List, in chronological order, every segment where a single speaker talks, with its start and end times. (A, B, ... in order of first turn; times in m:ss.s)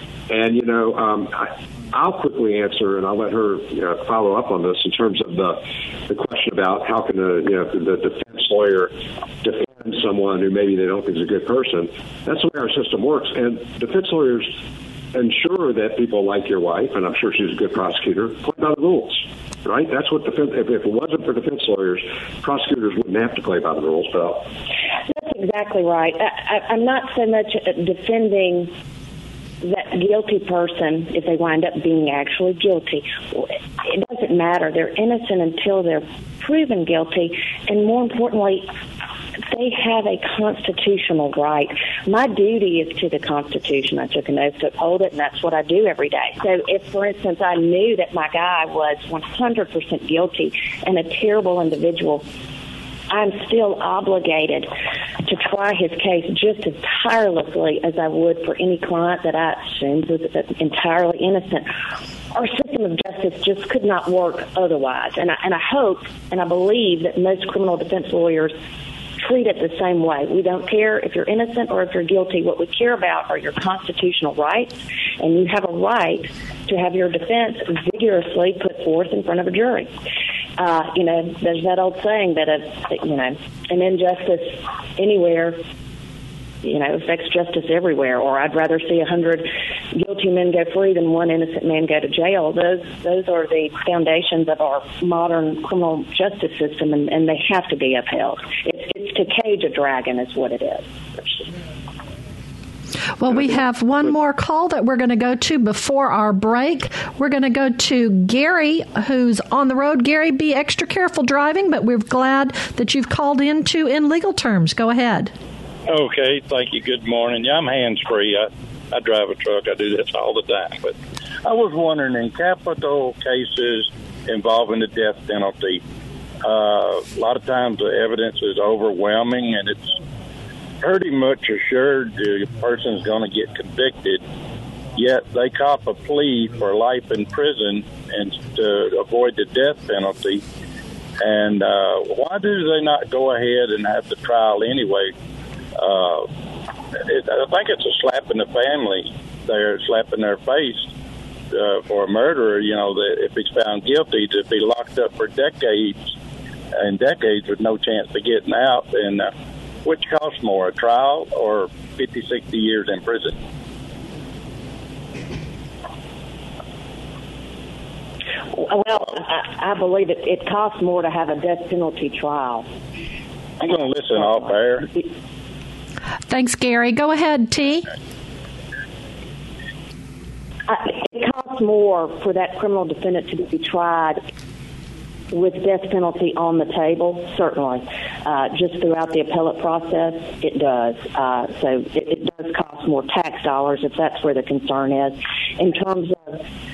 0:00.3-0:14.5 A
0:15.1-0:24.5 A
0:25.1-0:28.7 B
0:29.6-0:38.7 B
0:39.5-0:52.2 B
0:53.1-0:54.7 B
0:55.2-1:01.8 B
1:02.3-1:08.6 B
1:09.2-1:19.9 B
1:20.6-1:25.6 B
1:26.6-1:41.4 B
1:43.2-1:55.3 C
1:55.9-2:05.8 D
2:06.4-2:10.0 D
2:10.8-2:14.2 D
2:15.0-2:20.4 D
2:21.2-2:25.1 D
2:25.8-2:26.3 D
2:27.1-2:30.9 D
2:31.5-2:36.0 D
2:36.7-2:39.3 D
2:39.8-2:43.4 D
2:48.5-2:52.7 B
2:53.6-2:54.9 D
2:56.3-2:57.9 C
3:00.7-3:04.2 B
3:05.3-3:16.4 B